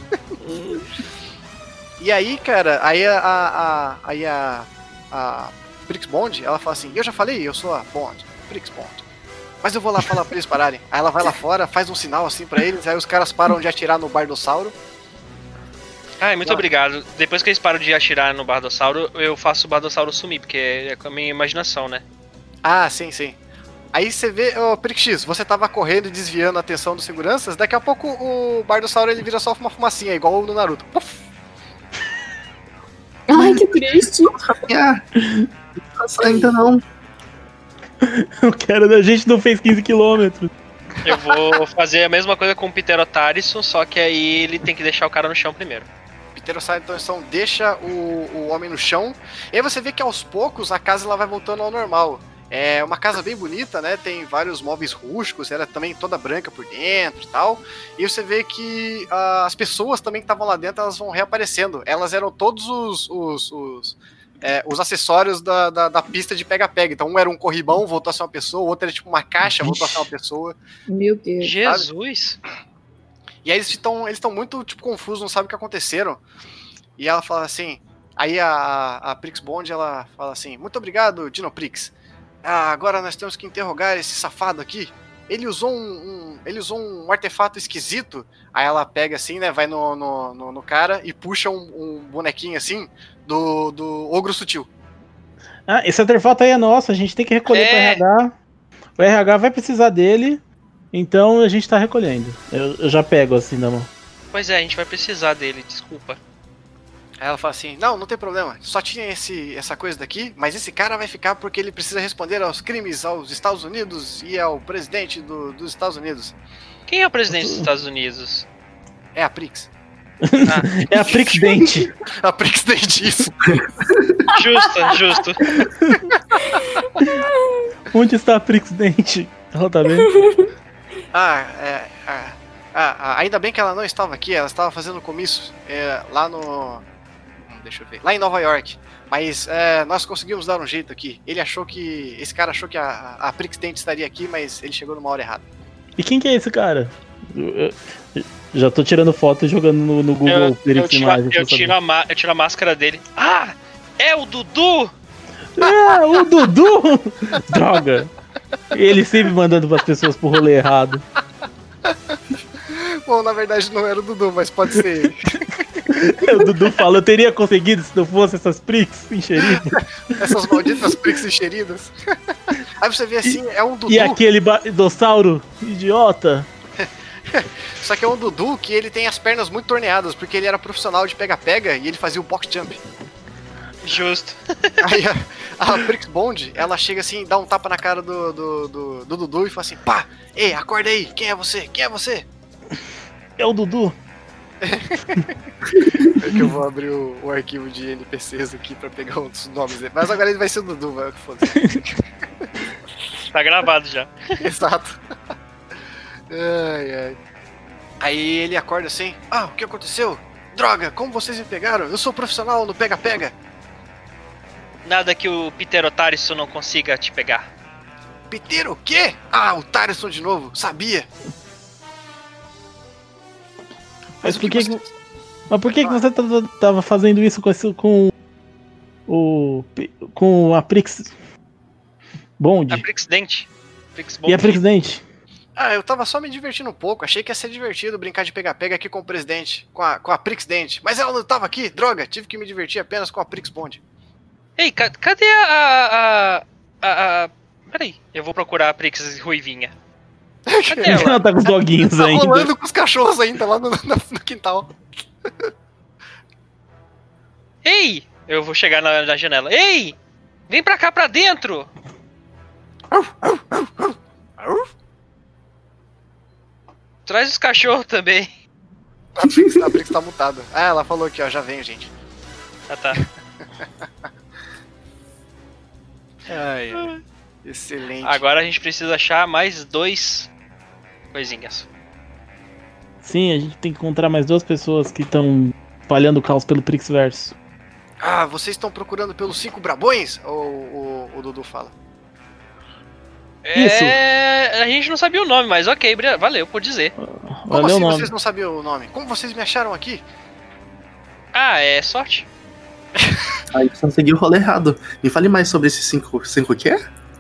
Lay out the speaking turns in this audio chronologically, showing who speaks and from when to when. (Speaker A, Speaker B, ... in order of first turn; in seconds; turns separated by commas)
Speaker A: 0.5-0.8, Speaker B: 2.0-9.0, Speaker B: 9.6-14.7, Speaker C: 16.2-22.0, Speaker B: 22.6-23.4, Speaker B: 23.9-31.2, Speaker D: 33.3-34.3, Speaker E: 33.3-35.0, Speaker A: 35.2-35.5, Speaker E: 36.0-36.8, Speaker A: 38.0-40.5, Speaker C: 41.0-45.9, Speaker B: 46.4-70.5, Speaker D: 70.9-71.5, Speaker C: 71.4-72.4, Speaker B: 73.5-76.2, Speaker B: 77.0-81.9, Speaker B: 82.4-94.7, Speaker A: 95.7-98.3, Speaker C: 97.5-98.0, Speaker A: 99.0-100.4, Speaker A: 100.9-103.9, Speaker C: 104.3-106.2, Speaker B: 107.2-116.4, Speaker C: 116.9-118.5, Speaker A: 117.3-117.7, Speaker B: 119.2-119.7, Speaker A: 120.2-121.9, Speaker B: 120.9-123.4, Speaker D: 124.3-124.9, Speaker C: 124.3-125.4, Speaker B: 125.5-126.8, Speaker D: 127.0-127.6, Speaker A: 127.9-130.1, Speaker D: 130.0-130.4, Speaker B: 131.1-136.8, Speaker B: 137.5-145.4, Speaker A: 146.0-151.7, Speaker C: 150.3-154.9, Speaker A: 155.6-158.1, Speaker A: 158.7-161.0, Speaker B: 162.7-165.3, Speaker A: 165.9-171.0, Speaker B: 166.0-166.5, Speaker B: 169.4-171.9, Speaker B: 172.5-174.2, Speaker A: 173.2-176.5, Speaker B: 176.8-182.8, Speaker C: 183.8-184.8, Speaker B: 184.8-192.3, Speaker A: 193.4-194.0, Speaker B: 194.6-195.3, Speaker B: 196.2-202.5, Speaker C: 203.3-204.4, Speaker B: 204.4-205.0, Speaker B: 206.3-207.2, Speaker B: 208.0-213.3, Speaker C: 214.9-217.5, Speaker B: 218.3-221.1, Speaker A: 224.2-224.8, Speaker B: 224.2-224.9, Speaker A: 225.5-228.1, Speaker B: 225.7-226.0, Speaker A: 229.1-231.1, Speaker A: 232.4-232.8, Speaker C: 232.7-234.6, Speaker A: 234.3-235.0, Speaker B: 235.6-243.8, Speaker C: 244.6-249.7, Speaker B: 250.5-255.5, Speaker C: 250.7-251.2, Speaker A: 250.9-252.5, Speaker C: 257.6-260.0, Speaker C: 260.5-261.7, Speaker B: 263.0-264.6, Speaker C: 267.1-268.3, Speaker B: 269.2-271.9, Speaker C: 272.7-273.0, Speaker B: 276.3-276.9, Speaker B: 277.4-278.2, Speaker C: 278.0-280.3, Speaker C: 281.1-281.7, Speaker A: 283.0-287.4, Speaker B: 288.0-291.7, Speaker C: 293.4-296.9, Speaker A: 293.6-294.0, Speaker A: 297.0-298.1, Speaker B: 297.5-300.0, Speaker C: 301.3-302.3, Speaker B: 303.0-303.4, Speaker E: 303.5-306.8